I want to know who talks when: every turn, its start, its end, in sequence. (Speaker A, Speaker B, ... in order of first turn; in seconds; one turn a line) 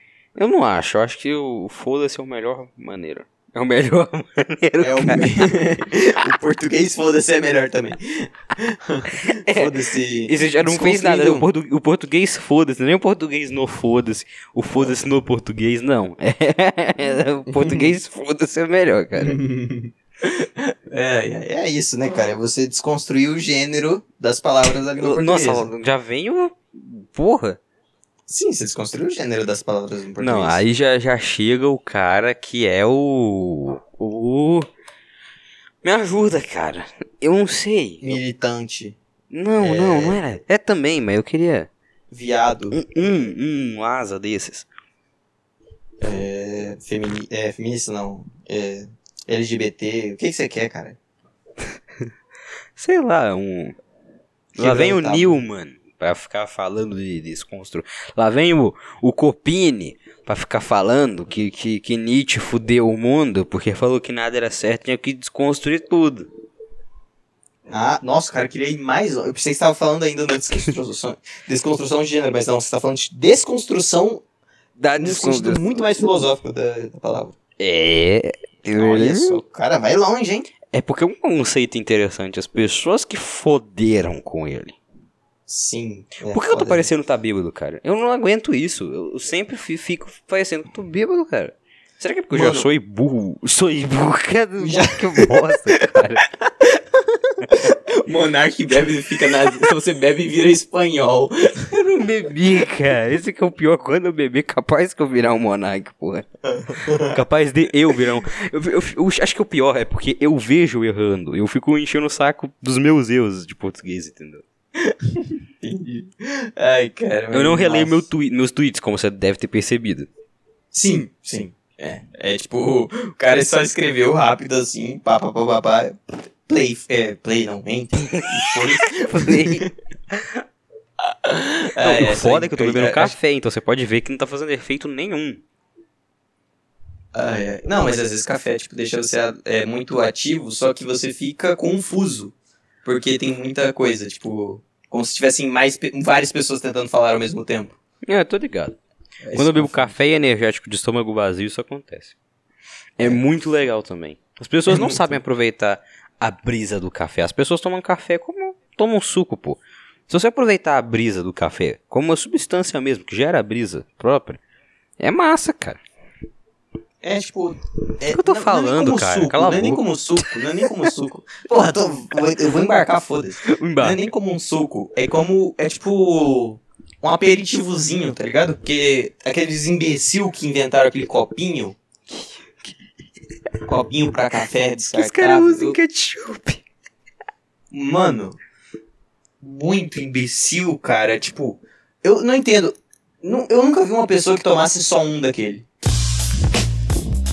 Speaker A: 0.3-5.4
Speaker B: 4.8-11.4
Speaker A: 9.3-19.4
Speaker B: 17.5-17.9
Speaker B: 19.2-25.7
Speaker A: 25.0-27.6
Speaker B: 28.3-30.6
Speaker A: 30.2-34.7
Speaker A: 35.8-38.2
Speaker B: 38.0-39.0
Speaker A: 39.3-41.7
Speaker B: 39.6-40.2
Speaker B: 42.1-42.8
Speaker A: 42.7-44.6
Speaker B: 46.0-51.0
Speaker A: 52.8-53.8
Speaker B: 54.5-55.4
Speaker A: 54.5-66.3
Speaker B: 67.7-74.2
Speaker A: 74.8-75.8
Speaker B: 75.0-77.3
Speaker A: 77.6-79.4
Speaker B: 78.7-80.5
Speaker A: 80.7-84.8
Speaker B: 85.5-86.9
Speaker A: 86.3-96.2
Speaker B: 92.3-92.7
Speaker B: 94.6-101.7
Speaker A: 101.7-106.3
Speaker B: 106.4-107.2
Speaker A: 107.0-114.4
Speaker B: 114.8-118.1
Speaker A: 117.3-120.1
Speaker B: 120.7-129.7
Speaker A: 128.0-130.4
Speaker B: 131.0-133.1
Speaker A: 131.8-135.4
Speaker B: 137.1-142.3
Speaker B: 142.8-147.8
Speaker A: 148.0-148.8
Speaker B: 149.2-149.9
Speaker A: 149.3-152.1
Speaker A: 153.0-164.4
Speaker B: 154.7-155.1
Speaker A: 165.0-165.8
Speaker B: 167.0-181.8
Speaker A: 168.1-170.3
Speaker A: 173.4-174.0
Speaker B: 183.6-185.8
Speaker A: 184.9-186.6
Speaker B: 187.7-188.4
Speaker B: 189.4-195.7